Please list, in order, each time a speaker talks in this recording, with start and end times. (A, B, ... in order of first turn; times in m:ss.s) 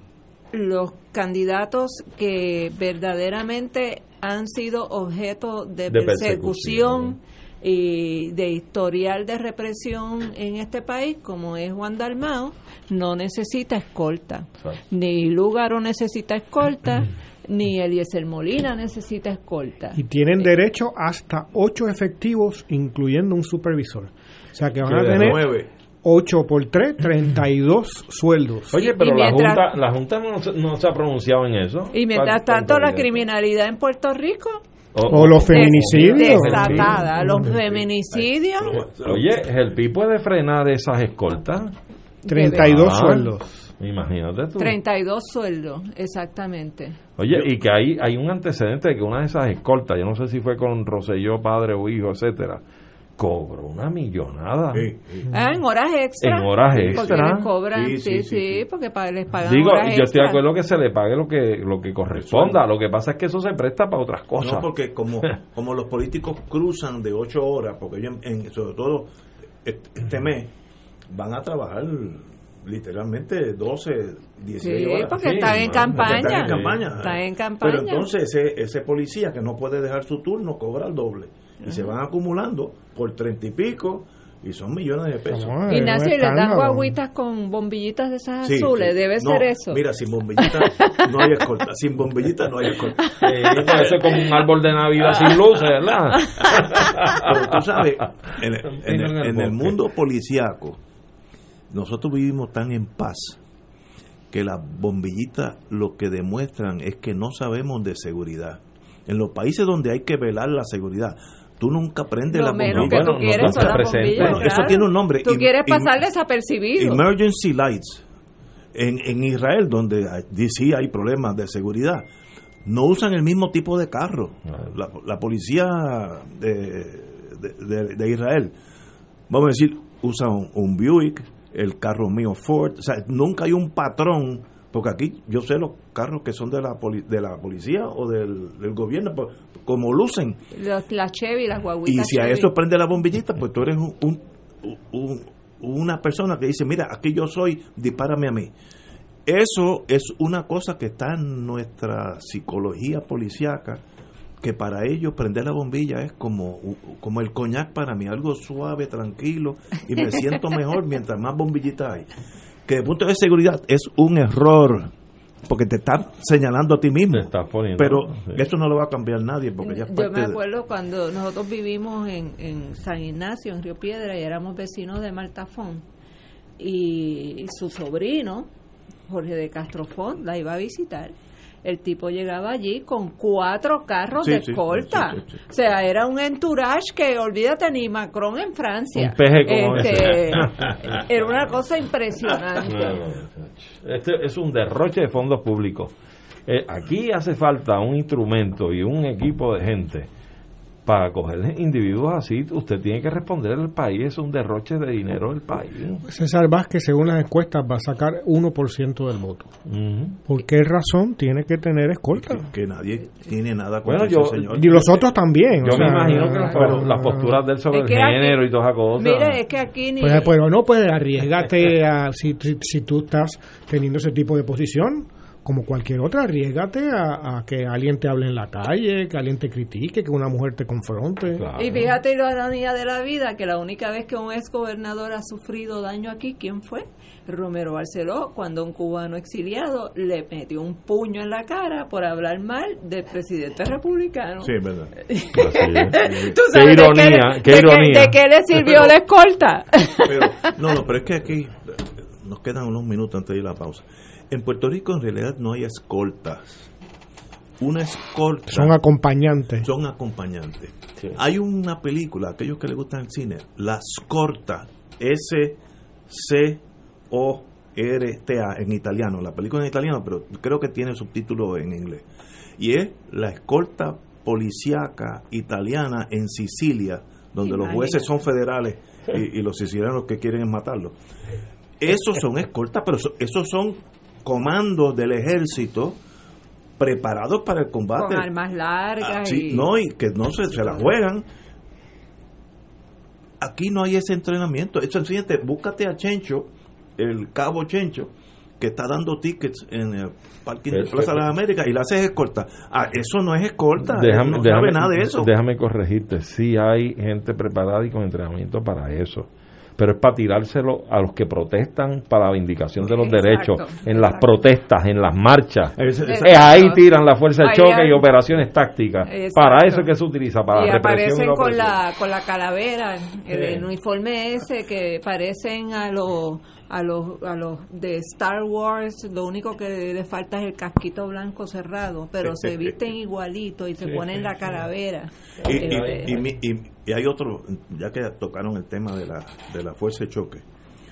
0:00.5-0:20.5 A
0:05.9-0:07.2 B
0:20.0-0:25.5 C
0:24.8-0:25.7 D
0:24.8-0:25.4 B
0:26.0-0:28.7 C
0:28.7-0:33.2 B
0:28.7-0:29.6 A
0:31.9-0:34.6 A
0:34.9-0:37.1 B
0:35.1-0:37.5 C
0:35.5-0:38.7 A
0:37.7-0:39.4 D
0:38.7-0:41.7 B
0:42.3-0:42.9 A
0:42.3-0:43.5 C
0:42.4-0:44.8 B
0:44.6-0:47.0 A
0:47.2-0:52.6 B
0:53.2-0:54.9 B
0:54.7-0:55.3 D
0:55.3-1:00.4 A
0:56.2-0:57.5 B
0:56.7-0:58.6 D
0:59.4-1:04.7 B
1:02.1-1:02.6 D
1:04.4-1:09.1 D
1:09.6-1:10.5 D
1:11.1-1:25.6 D
1:14.6-1:18.1 A
1:15.0-1:16.8 B
1:21.6-1:21.9 A
1:25.3-1:26.9 C
1:25.7-1:29.8 A
1:28.4-1:33.0 D
1:30.4-1:31.2 A
1:33.2-1:37.3 B
1:37.1-1:40.8 D
1:38.7-1:39.8 B
1:41.7-1:43.4 D
1:44.3-1:55.9 D
1:52.3-1:57.0 A
1:52.6-1:54.7 B
1:56.8-1:58.0 D
1:58.7-2:02.0 D
2:02.6-2:08.5 D
2:09.3-2:20.4 D
2:20.5-2:22.5 A
2:21.8-2:28.5 D
2:29.2-2:33.8 D
2:34.4-2:42.1 D
2:42.6-2:44.9 D
2:45.5-2:50.4 D
2:47.1-2:48.4 B
2:49.6-2:55.8 A
2:56.6-2:58.5 A
2:59.1-3:13.0 A
3:04.2-3:05.4 D
3:08.9-3:11.0 B
3:12.6-3:15.9 B
3:16.5-3:20.1 B
3:20.8-3:26.0 B
3:26.0-3:29.5 C
3:29.7-3:30.2 B
3:30.3-3:32.4 C
3:32.1-3:35.0 D
3:33.8-3:34.9 B
3:34.5-3:37.3 C
3:35.6-3:39.4 B
3:35.6-3:36.8 D
3:37.7-3:38.4 A
3:39.0-3:40.3 A
3:40.0-3:51.4 C
3:51.3-3:51.9 B
3:51.6-4:10.5 A
4:04.4-4:04.9 D
4:05.3-4:08.2 B
4:06.0-4:06.3 D
4:10.0-4:16.7 D
4:17.6-4:18.8 D
4:18.5-4:19.7 C
4:19.6-4:32.0 D
4:32.6-4:41.0 D
4:37.4-4:38.1 A
4:41.8-4:46.0 D
4:46.8-4:48.3 D
4:48.0-4:49.7 A
4:49.0-4:51.2 D
4:50.6-4:50.9 A
4:53.4-5:05.3 D
5:00.7-5:01.3 B
5:03.8-5:21.8 B
5:12.8-5:14.3 A
5:15.8-5:16.5 D
5:16.1-5:16.8 A
5:17.4-5:18.0 A
5:19.1-5:19.8 A
5:20.5-5:36.2 A
5:23.3-5:23.6 B
5:32.2-5:32.7 D
5:35.4-5:36.2 B
5:35.4-5:40.4 D